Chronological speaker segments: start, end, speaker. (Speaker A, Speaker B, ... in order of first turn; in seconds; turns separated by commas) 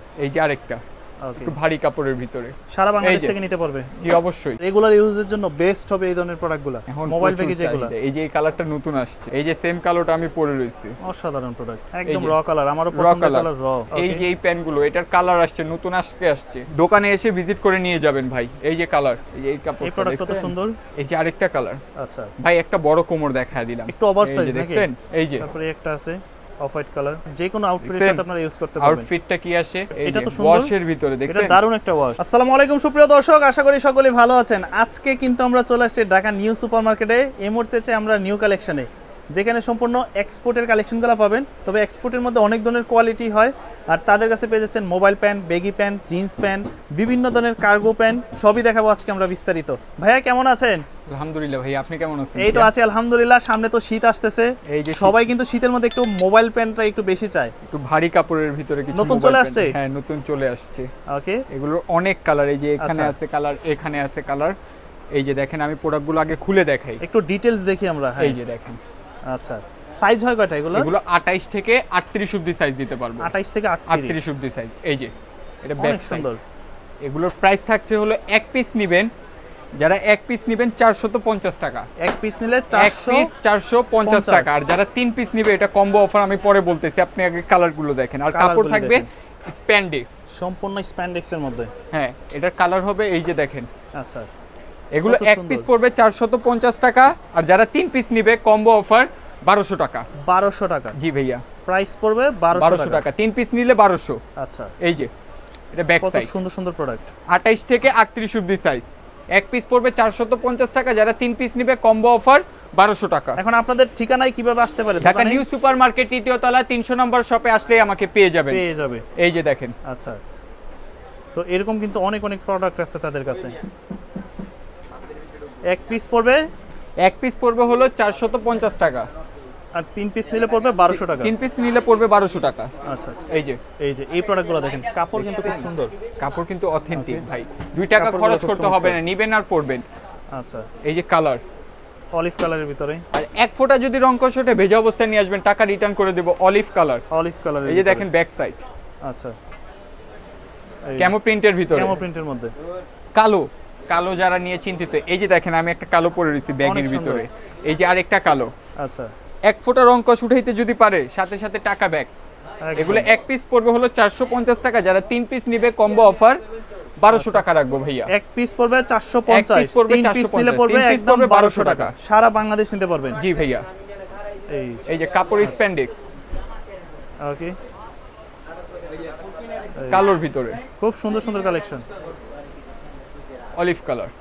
Speaker A: 0.2-0.8, Speaker B: 1.2-1.6, Speaker A: 1.4-3.4, Speaker B: 2.7-3.9, Speaker A: 4.0-4.6, Speaker B: 4.6-7.9, Speaker A: 6.9-10.9, Speaker B: 11.1-14.2, Speaker A: 12.1-12.3, Speaker A: 12.9-21.8, Speaker B: 19.8-20.8, Speaker B: 22.0-22.3, Speaker A: 22.4-25.5, Speaker B: 23.9-29.1, Speaker A: 27.8-28.2, Speaker A: 28.8-31.6, Speaker B: 30.1-30.7, Speaker B: 31.3-50.8, Speaker A: 51.1-52.7, Speaker B: 52.4-57.5, Speaker A: 54.7-55.2, Speaker A: 57.7-60.9, Speaker B: 58.9-59.8, Speaker B: 61.1-61.4, Speaker A: 61.5-64.5, Speaker B: 62.8-63.1, Speaker A: 65.1-67.0, Speaker B: 67.0-68.4, Speaker A: 68.2-68.8, Speaker B: 69.3-70.9, Speaker A: 70.8-73.3, Speaker B: 73.2-74.3, Speaker A: 73.9-75.1, Speaker A: 75.6-76.3, Speaker B: 75.8-76.4, Speaker A: 77.0-79.1, Speaker A: 79.8-81.9, Speaker B: 82.0-83.3, Speaker A: 82.7-90.1, Speaker B: 84.1-84.5, Speaker B: 88.3-89.1, Speaker B: 90.4-91.7, Speaker A: 91.9-93.7, Speaker B: 94.0-94.3, Speaker A: 94.9-100.1, Speaker B: 95.1-95.7, Speaker B: 100.3-101.0, Speaker A: 101.0-101.4, Speaker B: 101.7-103.0, Speaker A: 102.5-104.2, Speaker B: 104.4-104.7, Speaker A: 104.8-105.1, Speaker A: 105.7-106.3, Speaker B: 106.0-107.1, Speaker A: 107.3-113.4, Speaker B: 113.4-115.5, Speaker A: 115.0-118.6, Speaker B: 118.5-119.0, Speaker A: 119.2-119.7, Speaker B: 119.9-120.2, Speaker B: 121.3-123.6, Speaker B: 125.7-126.4, Speaker A: 127.0-129.1, Speaker B: 129.8-131.3, Speaker A: 130.9-132.7, Speaker B: 132.9-133.2, Speaker A: 133.3-133.6, Speaker B: 133.8-135.9, Speaker A: 135.2-135.6, Speaker A: 136.2-139.8, Speaker B: 136.9-137.3, Speaker B: 137.9-139.0, Speaker B: 140.4-140.7, Speaker A: 140.8-141.4, Speaker B: 142.2-143.0, Speaker A: 143.1-147.0, Speaker B: 147.1-148.1, Speaker A: 147.7-148.6, Speaker B: 149.1-149.3, Speaker B: 150.9-151.1, Speaker A: 151.0-152.0, Speaker B: 151.7-152.5, Speaker A: 153.2-158.5, Speaker B: 156.6-157.2, Speaker B: 158.8-159.1, Speaker A: 159.5-162.1, Speaker B: 162.7-163.1, Speaker A: 162.8-166.4, Speaker A: 167.0-168.1, Speaker B: 167.1-167.5, Speaker B: 168.1-173.2, Speaker A: 169.3-171.9, Speaker A: 173.2-173.6, Speaker B: 174.5-174.9, Speaker A: 174.9-176.0, Speaker B: 177.2-177.6, Speaker A: 179.9-180.6, Speaker B: 180.8-181.8, Speaker A: 183.6-184.1